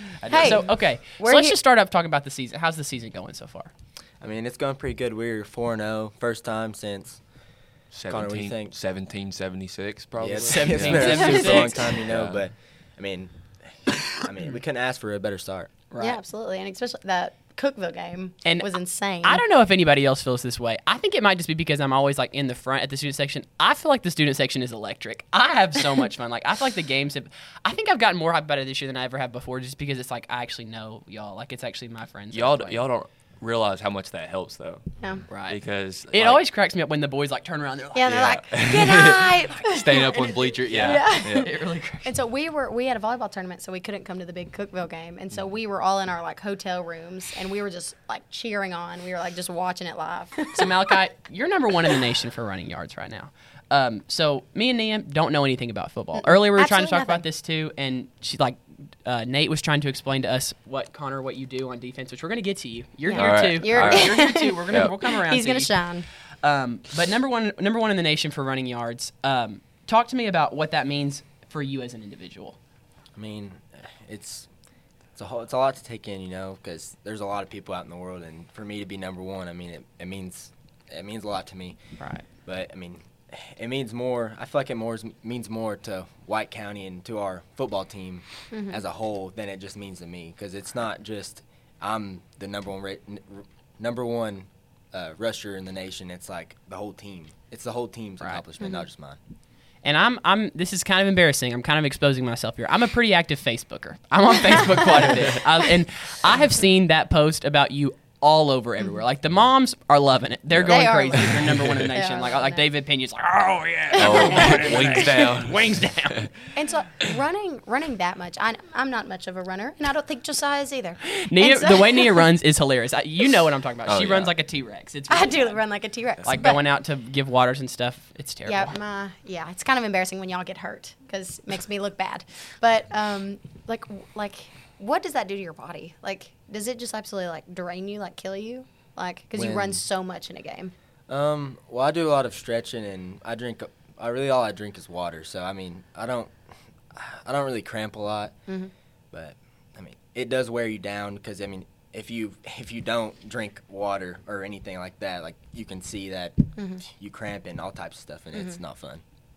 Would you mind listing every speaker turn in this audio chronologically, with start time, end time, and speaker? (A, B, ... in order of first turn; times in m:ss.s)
0:00.2-0:03.7 A
0:00.3-0:00.6 B
0:01.2-0:01.6 B
0:04.2-0:07.2 C
0:07.9-0:12.4 D
0:08.1-0:08.7 C
0:10.2-0:15.7 C
0:10.4-0:11.8 A
0:11.2-0:11.5 B
0:15.9-0:16.2 A
0:16.0-0:19.4 B
0:19.2-0:32.8 A
0:32.3-0:36.4 D
0:35.3-0:35.6 A
0:36.1-0:38.2 A
0:37.9-0:50.9 B
0:38.0-0:41.5 D
0:40.7-0:42.1 A
0:50.5-1:05.9 A
0:56.2-0:57.2 B
1:03.0-1:06.0 B
1:03.1-1:04.2 D
1:06.4-1:12.6 A
1:13.2-1:14.5 C
1:15.1-1:21.8 C
1:22.0-1:22.2 A
1:22.4-1:39.2 C
1:28.5-1:28.8 B
1:38.6-1:38.8 B
1:39.8-1:56.3 A
1:50.5-1:51.9 D
1:50.6-1:52.7 B
1:53.9-1:55.0 B
1:54.0-1:56.3 D
1:56.5-2:02.3 B
2:01.2-2:05.6 A
2:03.8-2:04.3 D
2:05.1-2:06.6 B
2:06.2-2:08.8 A
2:08.4-2:20.7 B
2:19.3-2:19.8 C
2:21.1-2:26.3 C
2:26.9-2:28.3 C
2:29.1-2:39.0 C
2:36.6-2:36.8 B